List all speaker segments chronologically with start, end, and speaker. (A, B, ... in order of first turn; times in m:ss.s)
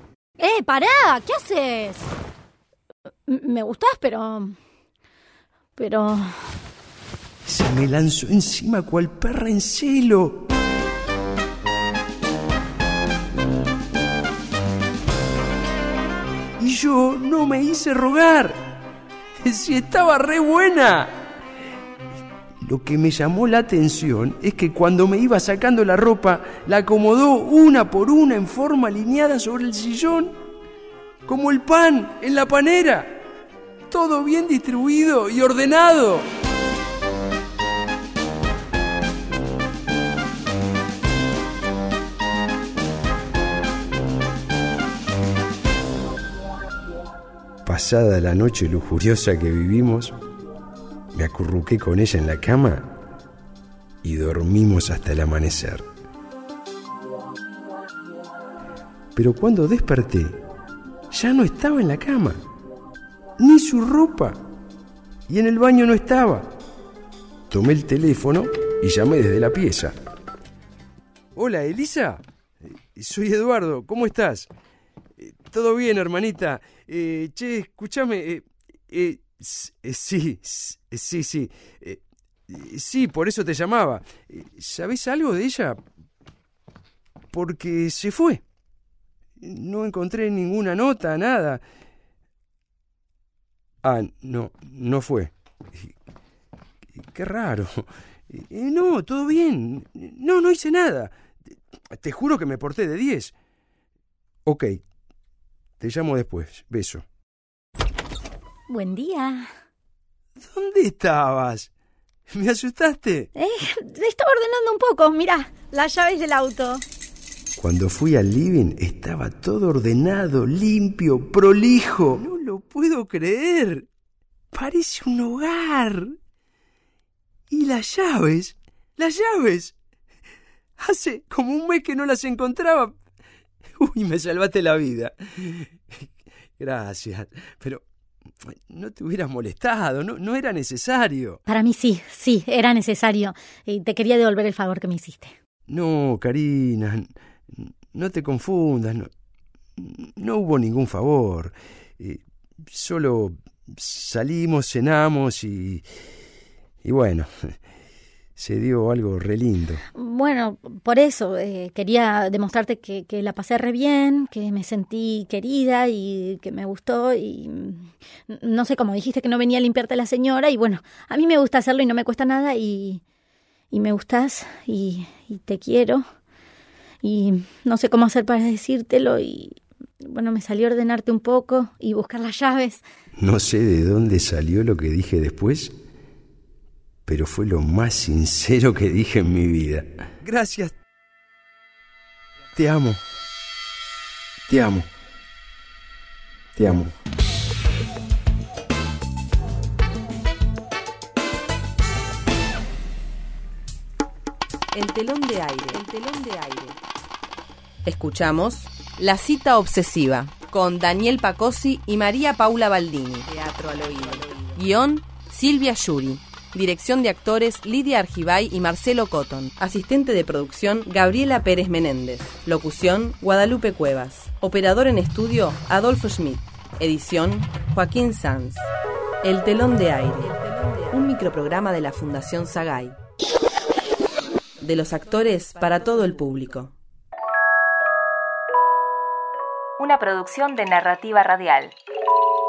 0:00.4-0:02.1 A
0:03.3-0:04.6 A
0:05.8-0:06.6 A
0:07.4-0:10.4 B
0:16.6-0:18.6 B
0:19.4-0:21.2 B
0:22.6-0:30.4 B
0:31.2-0:33.2 B
0:33.9-0:36.3 B
0:47.6-0:50.1 B
0:51.1-0:52.9 B
0:54.0-0:55.9 B
0:59.1-1:00.4 B
1:01.1-1:02.4 B
1:03.4-1:04.4 B
1:05.3-1:06.5 B
1:07.5-1:09.9 B
1:11.3-1:14.5 B
1:15.2-1:25.8 B
1:27.3-1:28.4 B
1:29.4-1:31.6 B
1:33.8-1:35.9 B
1:37.0-1:41.1 B
1:41.9-1:43.3 B
1:44.4-1:44.8 B
1:45.8-1:47.0 B
1:48.7-1:49.5 A
1:50.4-1:51.7 B
1:52.3-1:53.3 B
1:53.3-1:56.8 A
1:57.6-2:03.9 B
2:04.5-2:06.1 B
2:07.5-2:09.8 B
2:10.8-2:13.0 B
2:13.8-2:17.8 B
2:18.4-2:21.4 B
2:21.5-2:25.4 A
2:25.7-2:29.1 B
2:29.8-2:35.9 B
2:36.8-2:37.3 B
2:38.4-2:39.8 B
2:39.9-2:53.0 A
2:53.7-2:56.0 A
2:57.0-3:02.8 A
3:03.2-3:05.7 B
3:07.0-3:10.8 B
3:12.5-3:13.0 B
3:14.5-3:14.9 B
3:16.5-3:16.9 B
3:24.7-3:26.8 C
3:27.8-3:48.7 C
3:49.2-3:53.0 C
3:54.6-3:56.7 C
3:59.8-4:01.7 D